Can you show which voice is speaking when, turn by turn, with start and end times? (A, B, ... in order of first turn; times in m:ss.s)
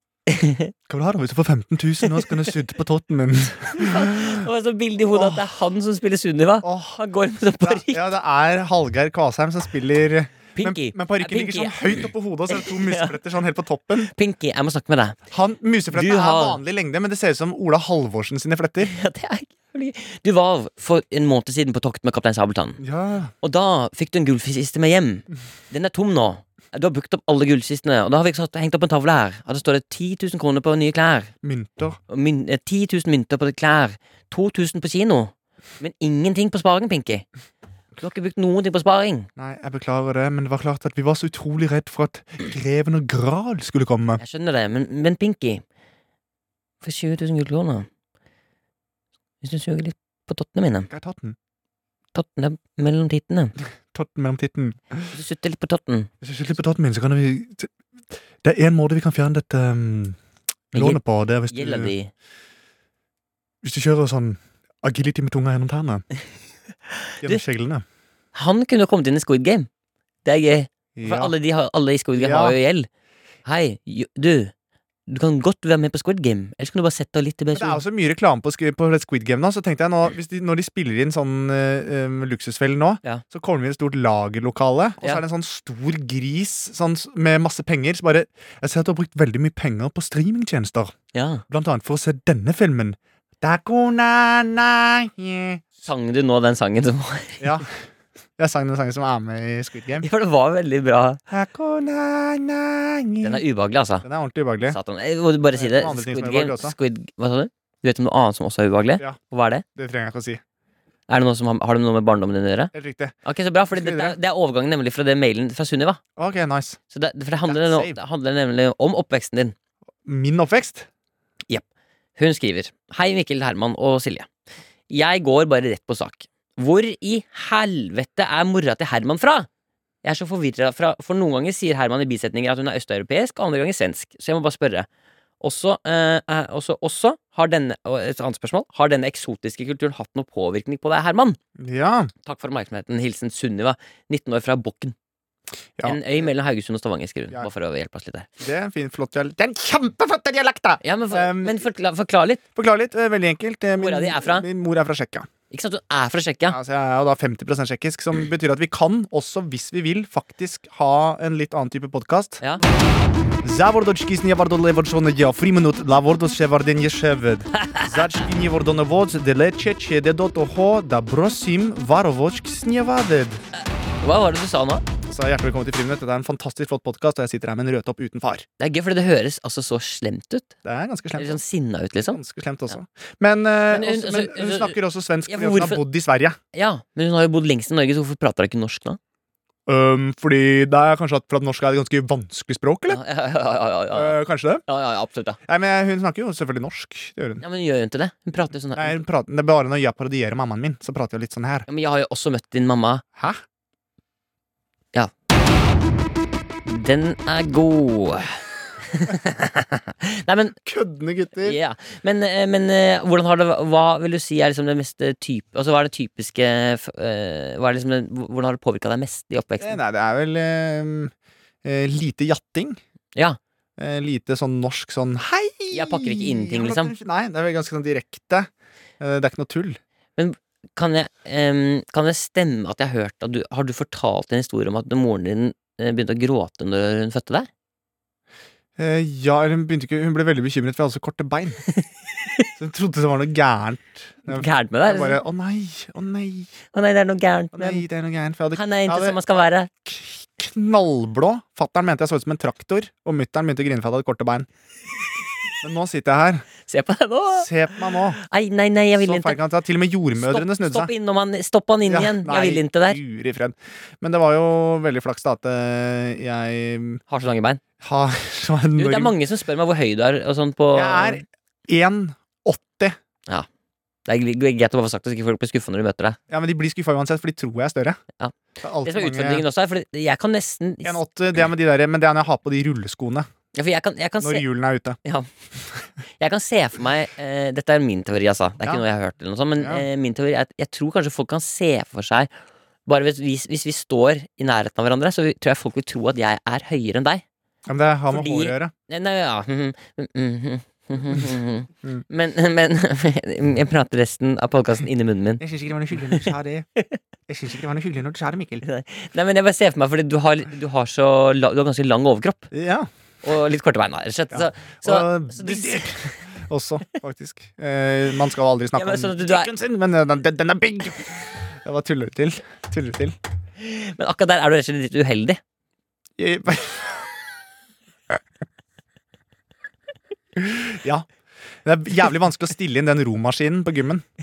0:00.3-0:00.7 A
0:00.9-0:04.4 B
0:03.7-0:08.1 A
0:05.1-0:05.5 B
0:06.6-0:07.0 B
0:07.6-0:14.1 B
0:10.5-0:13.2 A
0:14.0-0:15.2 A
0:15.3-0:18.9 B
0:15.9-0:16.6 A
0:18.8-0:22.8 A
0:22.8-0:23.3 B
0:23.4-0:31.3 A
0:31.4-0:32.0 B
0:32.1-0:37.2 A
0:38.0-0:39.3 A
0:39.4-0:44.2 B
0:44.2-0:45.6 A
0:46.8-0:47.9 A
0:49.4-0:50.9 A
0:50.9-0:51.4 B
0:52.1-0:53.5 A
0:53.9-0:55.1 B
0:55.1-0:56.1 A
0:56.2-0:57.7 B
0:58.4-1:00.2 B
1:00.7-1:01.9 B
1:00.7-1:02.1 A
1:03.6-1:06.0 B
1:07.2-1:07.8 B
1:08.3-1:09.7 A
1:10.2-1:12.9 A
1:11.0-1:11.3 B
1:12.2-1:12.6 B
1:13.4-1:14.5 A
1:15.1-1:17.8 A
1:17.5-1:30.9 B
1:31.1-1:31.4 A
1:31.5-1:35.6 B
1:35.8-1:37.6 A
1:37.4-1:37.7 B
1:38.4-1:40.1 B
1:40.0-1:41.2 A
1:41.3-1:43.4 B
1:43.2-1:44.0 A
1:44.0-1:44.8 B
1:44.7-1:49.6 A
1:45.5-1:46.7 B
1:49.8-1:50.4 B
1:51.1-1:52.7 A
1:52.7-1:53.1 B
1:53.2-1:56.0 A
1:53.7-1:54.2 B
1:56.2-1:56.8 B
1:56.9-1:59.5 A
1:57.5-1:58.0 B
2:00.0-2:00.9 B
2:02.2-2:04.3 A
2:04.9-2:09.5 A
2:10.0-2:14.9 A
2:15.4-2:21.4 A
2:21.6-2:22.1 B
2:22.2-2:24.9 A
2:25.8-2:26.2 B
2:25.8-2:28.3 A
2:28.4-2:31.6 B
2:30.8-2:32.4 A
2:32.6-2:35.3 B
2:33.8-2:34.5 A
2:35.5-2:36.6 A
2:36.5-2:42.4 B
2:43.4-2:53.4 B
2:47.6-2:47.9 A
2:53.5-2:54.8 A
2:55.1-2:58.4 B
2:58.6-3:00.5 A
3:00.6-3:01.4 B
3:01.2-3:02.2 A
3:02.1-3:06.4 B
3:03.7-3:05.8 A
3:06.5-3:09.0 A
3:09.7-3:13.0 B
3:12.9-3:15.4 A
3:13.9-3:14.6 B
3:15.5-3:17.4 B
3:17.4-3:19.0 A
3:18.7-3:21.7 B
3:21.7-3:23.0 A
3:23.2-3:23.4 B
3:26.6-3:30.6 A
3:30.6-3:31.6 B
3:31.4-3:39.8 A
3:39.6-3:41.1 B
3:41.6-3:42.8 B
3:43.8-3:49.8 B
3:45.7-3:46.9 A
3:50.2-3:57.5 A
3:58.8-4:01.6 B
4:02.6-4:06.5 B
4:04.3-4:05.2 A
4:06.7-4:07.8 A
4:07.5-4:09.2 B
4:08.5-4:09.7 A
4:09.8-4:14.5 B
4:15.6-4:16.5 B
4:16.7-4:19.4 A
4:17.3-4:18.2 B
4:19.0-4:20.9 B
4:20.2-4:23.0 A
4:21.8-4:27.0 B
4:27.1-4:27.6 A
4:27.8-4:29.1 B
4:28.8-4:31.2 A
4:30.7-4:33.0 B
4:34.0-4:36.2 A
4:36.3-4:38.0 B
4:38.2-4:41.0 A
4:38.6-4:39.4 B
4:40.8-4:43.3 B
4:43.5-4:44.4 A
4:44.2-4:45.0 B
4:46.2-4:52.3 A
4:49.6-4:49.8 B
4:52.8-4:57.2 A
4:57.6-4:58.7 B
4:58.1-5:05.4 A
5:05.4-5:06.7 B
5:07.3-5:08.6 B
5:08.6-5:12.5 A
5:12.5-5:12.9 B
5:13.2-5:15.9 A
5:14.3-5:23.2 B
5:18.7-5:19.5 A
5:23.6-5:25.4 A
5:26.2-5:27.0 B
5:30.4-5:31.1 B
5:31.6-5:34.0 B